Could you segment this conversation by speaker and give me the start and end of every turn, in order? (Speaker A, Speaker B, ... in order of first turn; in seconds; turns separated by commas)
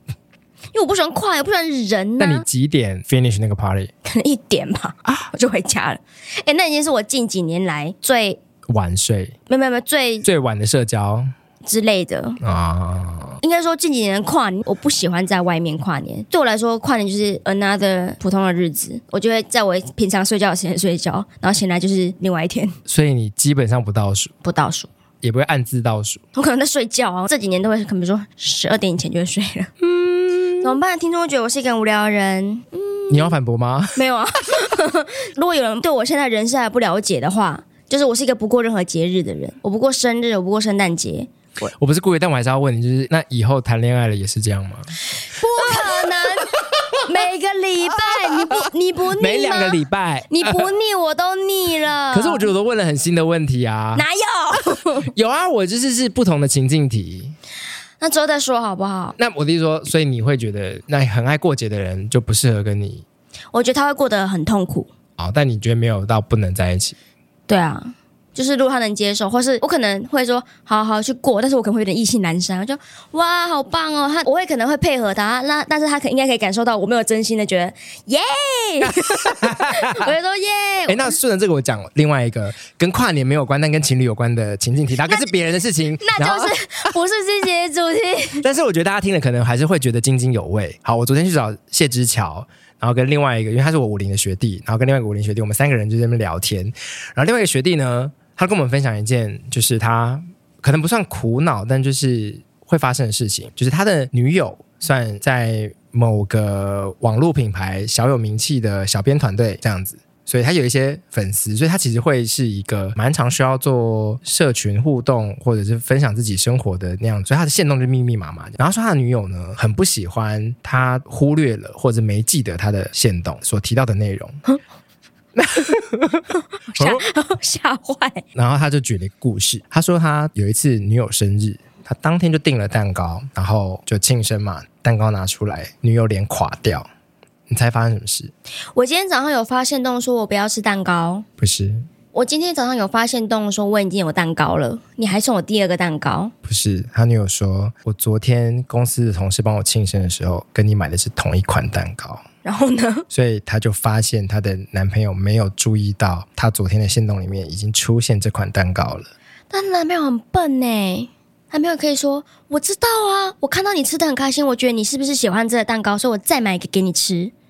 Speaker A: 0.7-2.4, Speaker B: 2.2-3.9, Speaker A: 4.0-8.4, Speaker B: 8.7-9.3, Speaker A: 9.5-10.2, Speaker B: 10.2-11.3, Speaker A: 11.6-12.4, Speaker B: 12.4-13.4, Speaker A: 13.4-22.8, Speaker B: 22.9-24.3, Speaker A: 24.4-24.9, Speaker B: 25.2-26.2, Speaker A: 26.3-29.7, Speaker B: 29.8-30.8, Speaker A: 30.6-33.4, Speaker B: 33.1-34.0, Speaker A: 34.0-41.3, Speaker B: 41.6-44.9, Speaker A: 45.2-52.5, Speaker B: 45.6-47.1, Speaker B: 48.0-50.7, Speaker B: 52.1-54.0, Speaker A: 54.0-55.1, Speaker B: 55.1-57.3, Speaker A: 58.0-59.2, Speaker B: 59.2-63.0, Speaker A: 63.5-64.9, Speaker B: 65.2-67.0, Speaker A: 67.5-81.1, Speaker B: 79.0-80.1, Speaker B: 80.9-86.6, Speaker A: 86.0-88.4, Speaker B: 88.4-124.4, Speaker B: 125.3-127.0, Speaker A: 126.7-128.2, Speaker B: 128.3-136.9, Speaker B: 137.5-138.3, Speaker A: 138.7-141.2, Speaker B: 141.4-141.9, Speaker A: 142.1-146.3, Speaker B: 146.4-152.2, Speaker A: 152.4-153.1, Speaker B: 153.1-159.1, Speaker A: 159.5-167.3